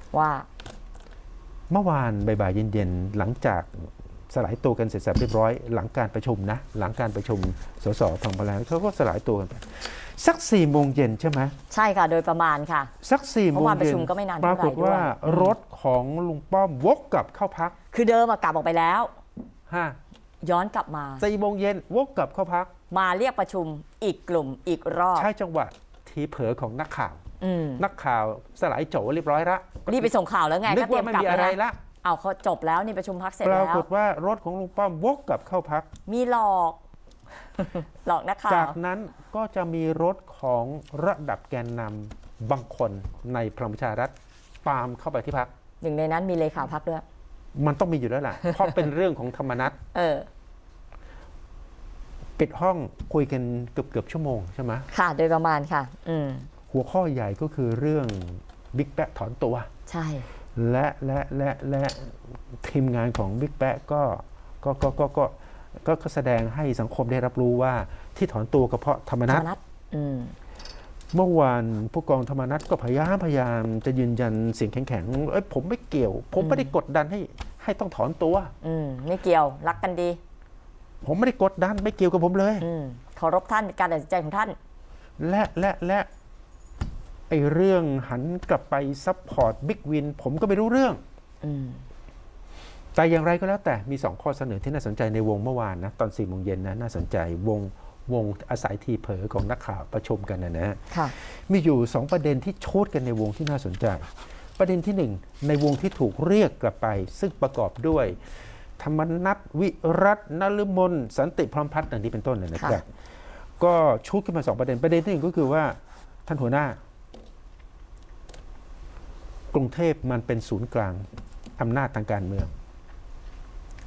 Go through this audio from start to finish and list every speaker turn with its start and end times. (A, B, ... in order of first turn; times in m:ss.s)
0:00.1-0:00.4 A
0:01.7-0:11.5 B
0:11.7-0:12.9 A
0:13.0-0:17.8 B
0:13.5-0:15.5 A
0:17.9-0:19.1 A
0:19.7-0:20.0 B
0:20.4-0:21.2 A
0:21.2-0:22.7 B
0:22.9-0:25.3 A
0:25.1-0:27.2 B
0:27.4-0:27.8 A
0:27.8-0:30.1 B
0:29.9-0:33.9 A
0:30.6-0:31.8 B
0:33.4-0:35.9 B
0:36.1-0:36.8 A
0:37.6-0:38.8 A
0:38.5-0:45.5 B
0:45.8-0:47.0 A
0:47.5-0:49.8 B
0:49.9-0:50.3 A
0:52.4-0:54.9 B
0:54.9-0:56.5 A
0:56.7-0:59.7 B
0:59.9-1:00.3 A
1:00.6-1:09.5 B
1:09.3-1:10.3 A
1:11.1-1:18.5 B
1:16.4-1:16.7 A
1:18.6-1:20.2 A
1:21.0-1:22.7 B
1:22.6-1:24.6 A
1:25.2-1:26.1 B
1:27.3-1:31.0 B
1:31.4-1:31.8 A
1:32.9-1:48.2 B
1:48.8-1:52.8 B
1:52.6-1:52.8 A
1:53.6-1:56.8 B
1:59.5-2:01.1 B
2:01.6-2:02.5 B